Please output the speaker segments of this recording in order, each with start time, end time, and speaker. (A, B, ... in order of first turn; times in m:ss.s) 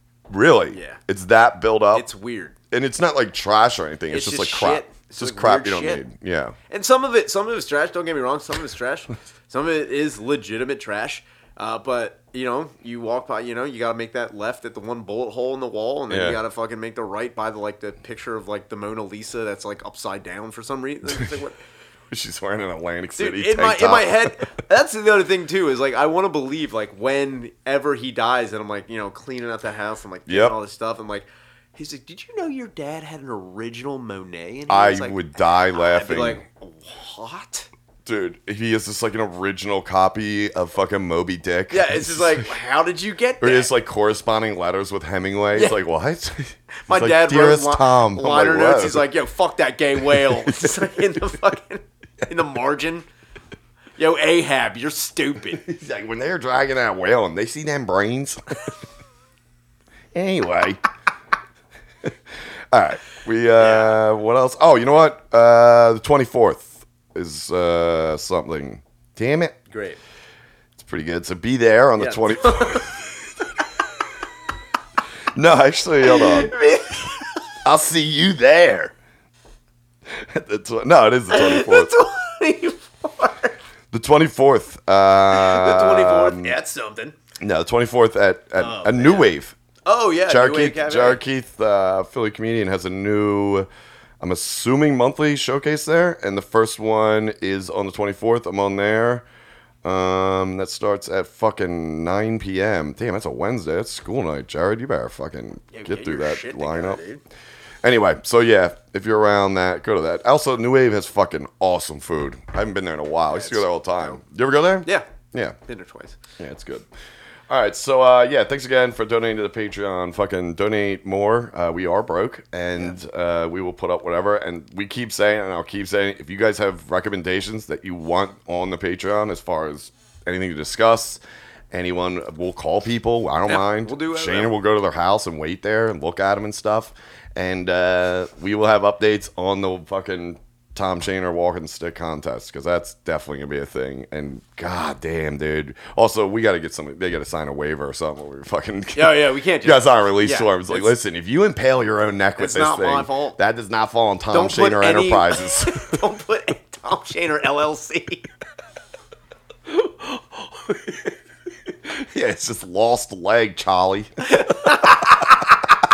0:00.3-0:02.1 A
0:00.7-0:01.0 B
0:01.9-0:02.6 B
0:02.7-0:06.6 A
0:04.1-0:06.0 B
0:06.7-0:21.6 B
0:16.1-0:16.4 A
0:22.1-0:24.3 A
0:23.2-0:37.7 B
0:30.3-0:30.6 A
0:34.7-0:36.4 A
0:38.0-0:42.5 A
0:41.7-0:43.7 B
0:43.4-0:49.1 A
0:46.8-0:53.0 B
0:50.2-0:50.7 A
0:54.0-0:55.6 B
0:55.6-0:58.6 A
1:00.1-1:00.8 A
1:02.7-1:09.6 A
1:03.6-1:04.0 B
1:09.7-1:10.0 B
1:10.8-1:12.9 A
1:12.0-1:12.9 B
1:15.3-1:16.6 A
1:16.0-1:17.2 B
1:17.6-1:18.9 A
1:20.1-1:21.9 A
1:21.3-1:23.6 B
1:23.9-1:26.6 A
1:25.3-1:27.2 B
1:27.4-1:29.6 A
1:28.6-1:29.3 B
1:29.8-1:31.2 B
1:30.3-1:33.7 A
1:34.2-1:39.2 A
1:39.8-1:47.0 A
1:45.7-1:47.2 B
1:47.8-1:55.6 A
1:53.3-1:54.2 B
1:55.6-1:56.2 B
1:56.4-1:56.9 A
1:57.5-2:11.2 A
2:11.7-2:36.0 A
2:13.5-2:14.5 B
2:28.9-2:31.0 B
2:32.4-2:33.4 B
2:34.3-2:38.3 B
2:39.7-2:41.2 A
2:41.7-2:44.4 A
2:44.3-2:45.2 B